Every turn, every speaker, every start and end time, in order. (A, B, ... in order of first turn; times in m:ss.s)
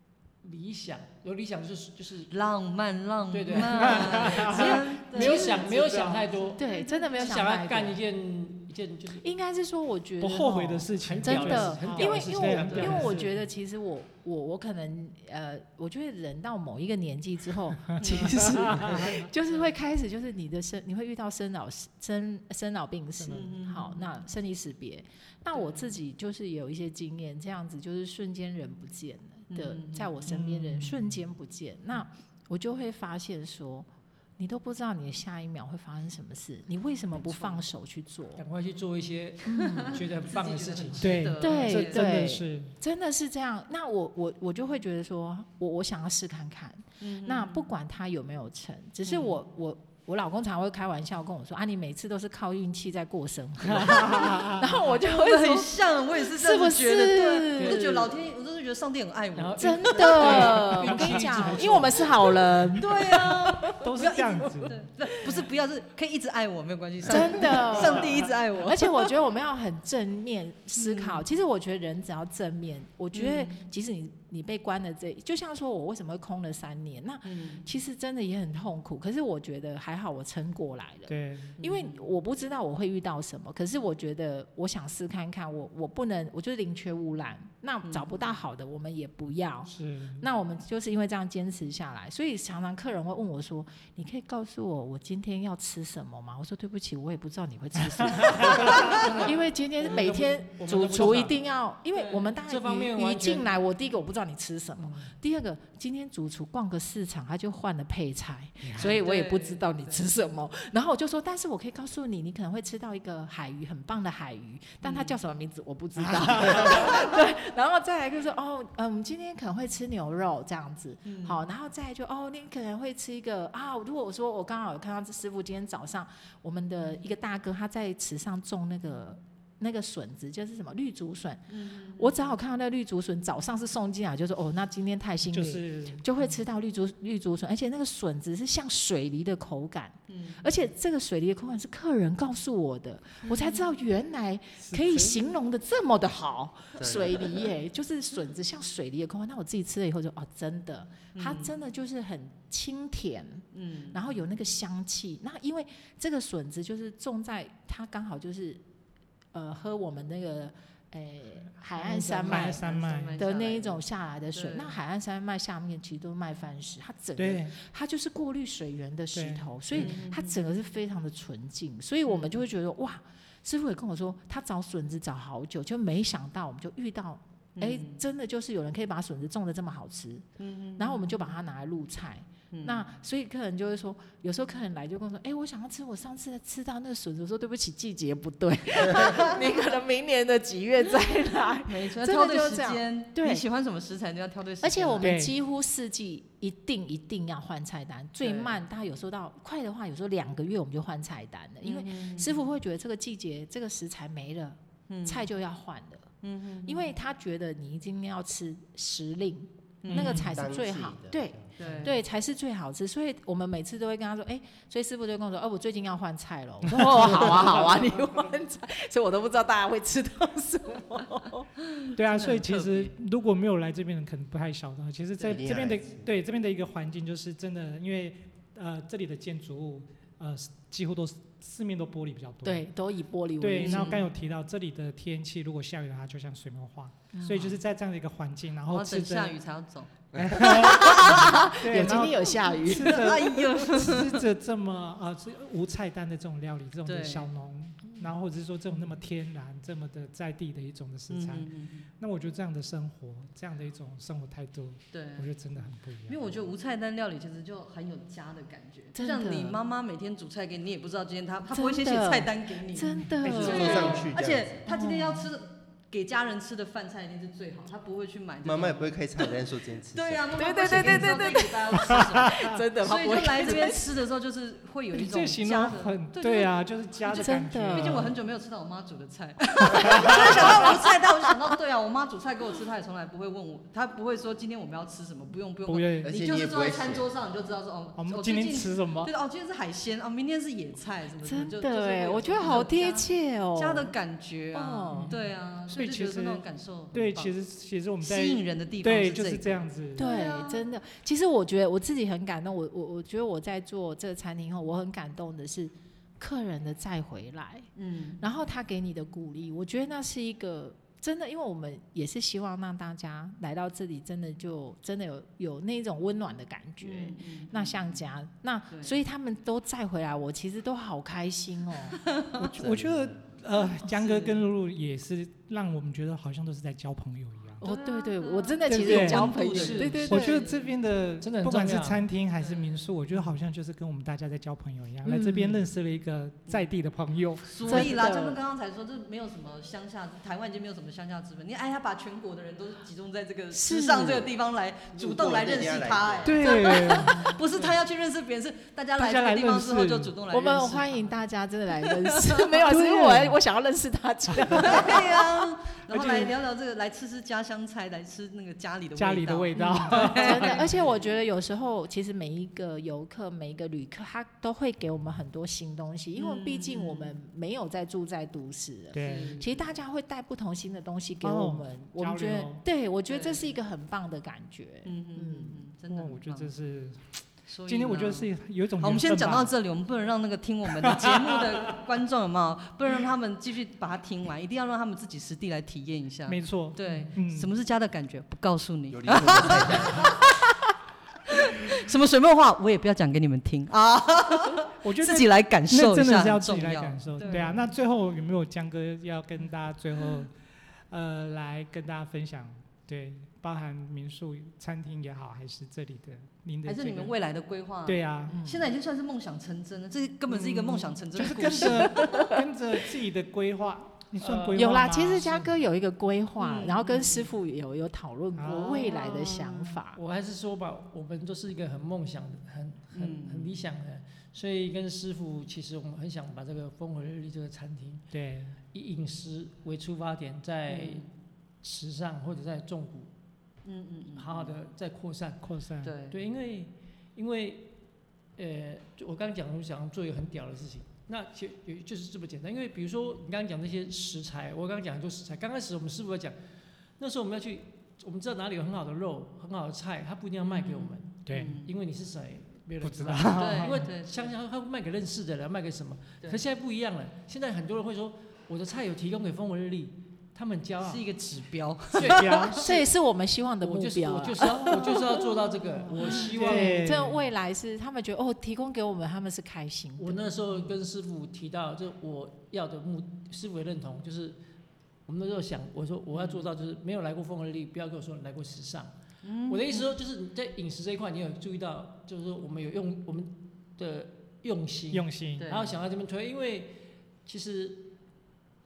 0:00.4-0:02.3 A
0:02.3-0:07.4 B
0:03.3-0:09.2 A
0:03.8-0:04.9 C
0:04.4-0:05.6 D
0:05.7-0:06.2 C
0:06.6-0:08.0 D
0:09.2-0:38.4 D
0:10.2-0:13.3 C
0:11.0-0:13.3 A
0:18.0-0:18.7 B
0:18.6-0:19.2 C
0:23.2-0:23.5 C
0:23.3-0:24.1 B
0:25.5-0:26.0 B
0:29.5-0:30.1 B
0:30.2-0:31.2 C
0:37.2-0:37.6 A
0:38.4-0:41.2 A
0:39.5-0:40.0 D
0:39.6-0:42.2 B
0:41.0-0:42.7 C
0:41.4-0:57.9 D
0:47.0-0:47.7 B
0:49.1-0:49.4 B
0:53.7-0:54.7 C
0:54.2-1:00.8 B
0:57.6-0:58.1 A
0:59.4-1:02.5 A
0:59.6-1:03.9 D
1:00.9-1:01.3 C
1:02.8-1:09.1 B
1:03.8-1:04.8 C
1:07.1-2:11.4 D
1:07.8-1:08.1 C
1:10.8-1:11.2 B
1:13.1-1:13.7 B
1:17.2-1:17.7 B
1:21.1-1:21.6 C
1:21.6-1:22.1 B
1:29.7-1:30.2 C
1:38.0-1:39.2 C
1:38.9-1:41.4 A
1:42.0-1:42.3 B
1:42.4-1:43.5 A
1:48.6-1:48.9 C
1:48.8-1:50.1 B
1:54.8-1:55.2 B
1:56.0-1:56.9 C
2:01.0-2:01.4 B
2:11.5-2:12.4 B
2:12.0-2:38.6 D
2:15.3-2:16.0 C
2:20.1-2:20.5 B
2:23.2-2:23.7 B
2:24.6-2:25.3 C
2:26.8-2:27.4 E
2:31.2-2:31.5 B
2:33.5-2:34.2 B
2:39.3-2:42.6 D
2:41.9-2:43.8 B
2:42.0-2:42.2 A
2:42.3-2:43.2 C
2:43.2-3:00.3 D
2:44.3-2:44.8 B
2:47.2-2:47.6 C
2:49.1-2:50.0 C
2:49.7-2:50.4 B
2:52.1-2:52.4 B
2:57.6-2:58.0 B
3:00.4-3:01.2 B
3:00.8-3:13.4 D
3:02.5-3:02.8 B
3:09.0-3:09.2 B
3:11.7-3:15.1 B
3:14.6-3:26.1 D
3:15.0-3:15.3 C
3:18.2-3:18.6 B
3:21.6-3:22.4 B
3:24.9-3:25.3 B
3:26.2-3:26.9 B
3:26.7-3:41.5 D
3:29.8-3:30.2 B
3:29.9-3:30.3 C
3:30.2-3:31.6 E
3:31.6-3:32.0 B
3:36.7-3:37.8 C
3:41.9-3:42.9 B
3:42.0-3:52.7 C
3:45.3-3:46.1 E
3:52.4-3:54.0 D
3:53.4-3:59.4 C
3:53.6-3:54.0 B
3:57.1-3:57.6 D
3:58.7-3:59.9 B
4:00.2-4:16.3 C
4:00.4-4:03.1 D
4:02.8-4:04.2 B
4:06.8-4:07.3 B
4:11.1-4:11.9 B
4:14.9-4:15.3 B
4:16.1-4:29.3 B
4:19.0-4:19.6 D
4:21.5-4:24.1 D
4:23.2-4:24.6 E
4:24.7-4:25.3 D
4:28.4-4:30.4 E
4:29.9-4:36.5 B
4:30.4-4:33.9 D
4:34.9-4:38.2 C
4:37.1-4:38.1 D
4:37.7-4:57.3 B
4:39.6-4:40.7 C
4:40.0-4:40.8 D
4:45.7-4:46.2 C
4:46.0-4:47.1 E
4:48.0-4:49.1 C
4:51.2-4:53.9 D
4:54.5-4:55.2 D
4:54.9-5:00.1 C
4:58.0-5:00.7 B
5:00.0-5:07.7 D
5:07.8-5:08.2 B
5:08.2-5:22.0 D
5:16.8-5:18.0 B
5:18.7-5:19.0 B
5:22.4-5:27.6 C
5:22.6-5:23.2 E
5:23.8-5:24.4 B
5:27.6-5:30.4 D
5:27.6-5:30.8 B
5:28.7-5:29.4 C
5:29.0-5:30.1 A
5:30.0-5:37.9 C
5:31.2-5:32.1 A
5:32.3-5:33.3 B
5:35.0-5:35.6 D
5:37.4-5:51.1 B
5:37.7-5:38.4 D
5:43.5-5:44.3 D
5:44.9-5:46.5 E
5:46.2-5:47.8 C
5:49.0-5:50.1 C
5:50.3-5:55.3 D
5:52.2-5:52.7 B
5:52.7-5:53.4 C
5:54.4-5:54.8 C
5:54.5-6:00.8 B
5:55.9-5:56.3 C
5:59.0-6:00.7 C
5:59.6-6:15.6 D
6:06.2-6:07.2 B
6:08.9-6:09.4 C
6:09.0-6:09.7 B
6:11.2-6:12.6 C
6:13.1-6:13.5 B
6:14.8-6:16.5 B
6:15.9-6:19.5 C
6:17.5-6:30.7 B
6:20.8-6:21.8 C
6:26.3-6:27.5 C
6:28.9-6:30.1 E
6:31.3-6:37.6 B
6:34.8-6:40.3 C
6:40.9-6:47.2 C
6:46.6-6:52.3 B
6:47.9-6:48.4 C
6:48.3-6:48.6 D
6:50.3-6:55.4 C
6:51.3-6:52.4 D
6:54.2-6:55.5 A
6:54.5-7:00.0 D
6:56.4-6:57.3 B
6:58.4-6:59.0 C
6:58.8-7:08.1 A
7:02.9-7:03.5 B
7:08.1-7:08.6 C
7:08.7-7:11.1 A
7:10.7-7:11.1 B
7:11.6-7:13.1 A
7:13.6-7:14.6 B
7:14.2-7:15.5 A
7:15.4-7:15.9 C
7:15.8-7:16.2 B
7:16.1-7:17.8 A
7:18.4-7:26.4 A
7:27.0-7:41.0 A
7:30.5-7:31.7 B
7:31.3-7:31.6 C
7:32.8-7:33.9 C
7:33.3-7:34.3 B
7:40.8-7:42.8 B
7:42.0-7:42.8 A
7:42.0-7:42.6 C
7:42.6-7:44.9 D
7:43.6-7:46.8 A
7:44.5-7:46.2 B
7:45.8-7:50.3 D
7:46.2-7:47.2 C
7:50.0-7:54.4 A
7:55.1-7:58.9 A
7:56.2-7:56.4 B
7:59.2-8:00.0 B
7:59.5-8:08.0 A
8:04.9-8:05.5 C
8:05.4-8:05.8 B